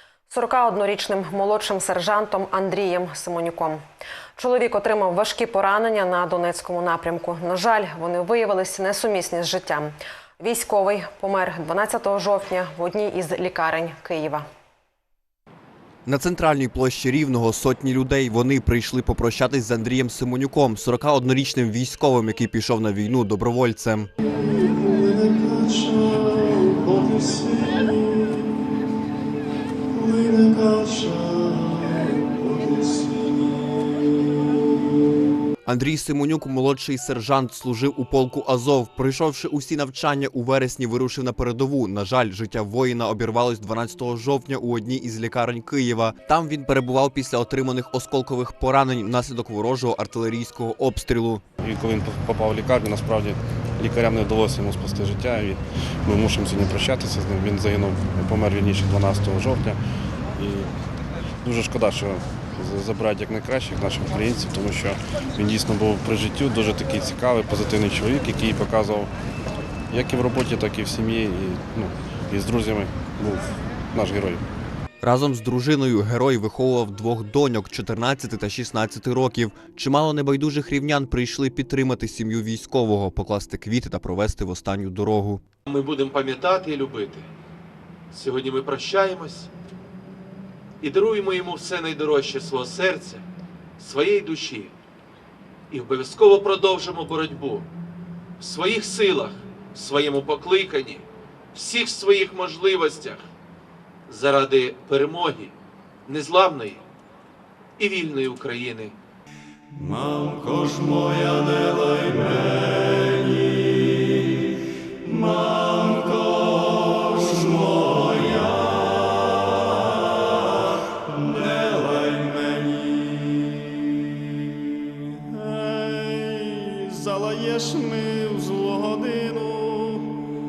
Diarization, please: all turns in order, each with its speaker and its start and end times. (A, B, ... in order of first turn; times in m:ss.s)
0:00.3-0:03.8 A
0:04.4-0:14.4 A
0:16.0-0:24.1 B
0:24.5-0:28.5 C
0:29.9-0:34.3 C
0:35.6-0:51.4 B
0:51.6-0:59.8 D
1:00.4-1:00.7 D
1:01.4-1:09.1 D
1:09.9-1:14.4 D
1:15.0-1:25.4 B
1:25.7-1:27.2 E
1:28.1-1:29.5 E
1:30.8-1:33.2 E
1:33.8-1:34.7 E
1:35.7-1:37.7 E
1:38.4-1:43.2 E
1:44.1-1:45.5 E
1:46.1-1:46.8 E
1:47.8-1:48.9 E
1:49.7-1:54.3 C
1:55.0-1:59.3 C
2:01.0-2:03.6 C
2:05.0-2:10.2 C